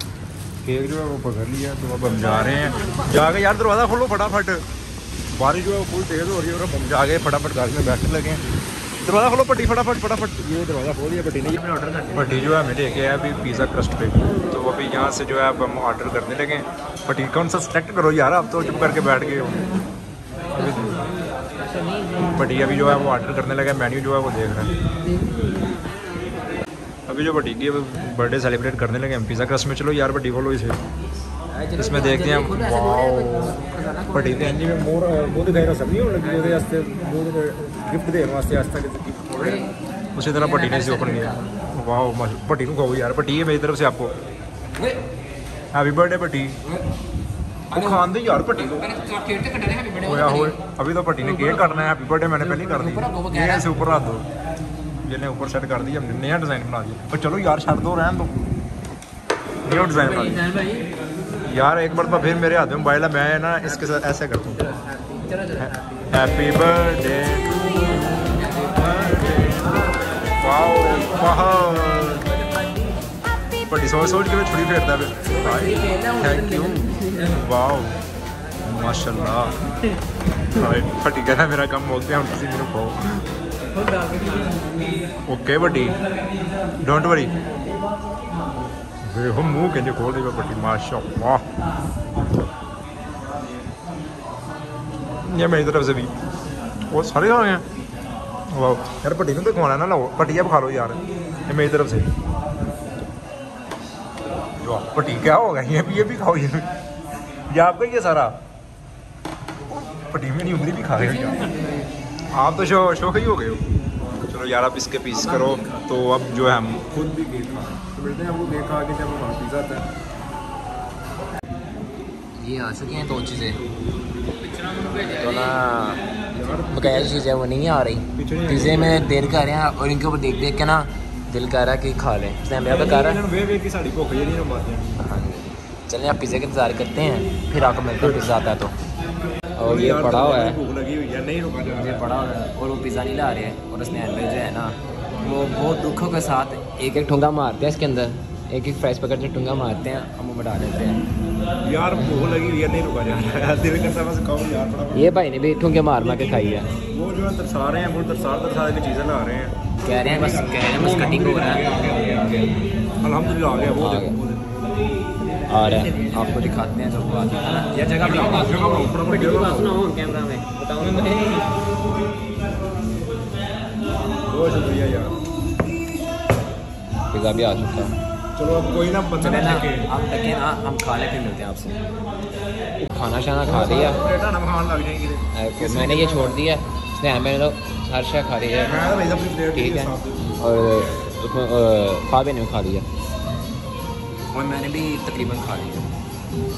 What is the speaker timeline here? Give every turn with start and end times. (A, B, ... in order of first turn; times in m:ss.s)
0:00.6-0:04.6 A
0:05.3-0:08.4 A
0:09.0-0:11.6 A
0:11.5-0:12.5 B
0:12.1-0:19.6 A
0:20.5-0:21.1 A
0:22.3-0:24.7 A
0:27.1-0:30.8 A
0:31.5-0:34.6 B
0:31.8-0:33.6 A
0:34.1-0:39.6 A
0:39.3-0:39.7 B
0:40.2-0:44.1 A
0:40.3-0:41.5 B
0:45.7-0:46.6 A
0:47.7-0:48.0 B
0:47.7-0:48.8 A
0:48.6-0:50.6 B
0:50.0-0:54.2 A
0:51.2-0:51.7 B
0:52.4-0:53.7 B
0:55.0-0:58.5 A
0:59.6-1:00.5 A
1:01.4-1:04.6 A
1:05.6-1:09.7 A
1:10.4-1:12.2 A
1:13.6-1:18.0 A
1:15.3-1:17.1 B
1:18.6-1:19.6 A
1:20.5-1:23.2 A
1:25.3-1:26.0 A
1:26.8-1:27.3 A
1:29.1-1:31.4 A
1:35.2-1:36.1 A
1:36.9-1:37.6 A
1:38.5-1:42.1 A
1:44.6-1:46.7 A
1:47.5-1:48.4 A
1:49.7-1:51.4 A
1:52.3-1:53.6 A
1:54.2-1:59.8 A
1:55.1-1:55.8 B
2:02.4-2:03.6 B
2:04.5-2:06.0 B
2:06.3-2:07.2 A
2:06.7-2:13.2 B
2:08.2-2:09.1 A
2:12.6-2:15.0 A
2:15.0-2:18.8 B
2:18.0-2:18.3 A
2:19.5-2:20.6 B
2:19.6-2:22.0 A
2:21.6-2:31.0 B
2:31.6-2:35.2 A
2:34.9-2:36.7 B
2:36.0-2:44.6 A
2:39.8-2:41.7 B
2:43.7-2:44.2 B
2:45.5-2:51.5 B
2:48.0-2:49.8 A
2:54.3-2:55.2 A
2:57.1-2:58.0 B
2:58.4-2:59.9 A
2:59.2-3:01.8 B
3:02.8-3:04.0 B
3:03.4-3:06.4 A
3:05.3-3:08.8 B
3:08.5-3:10.4 A
3:09.5-3:12.9 B
3:14.3-3:15.9 B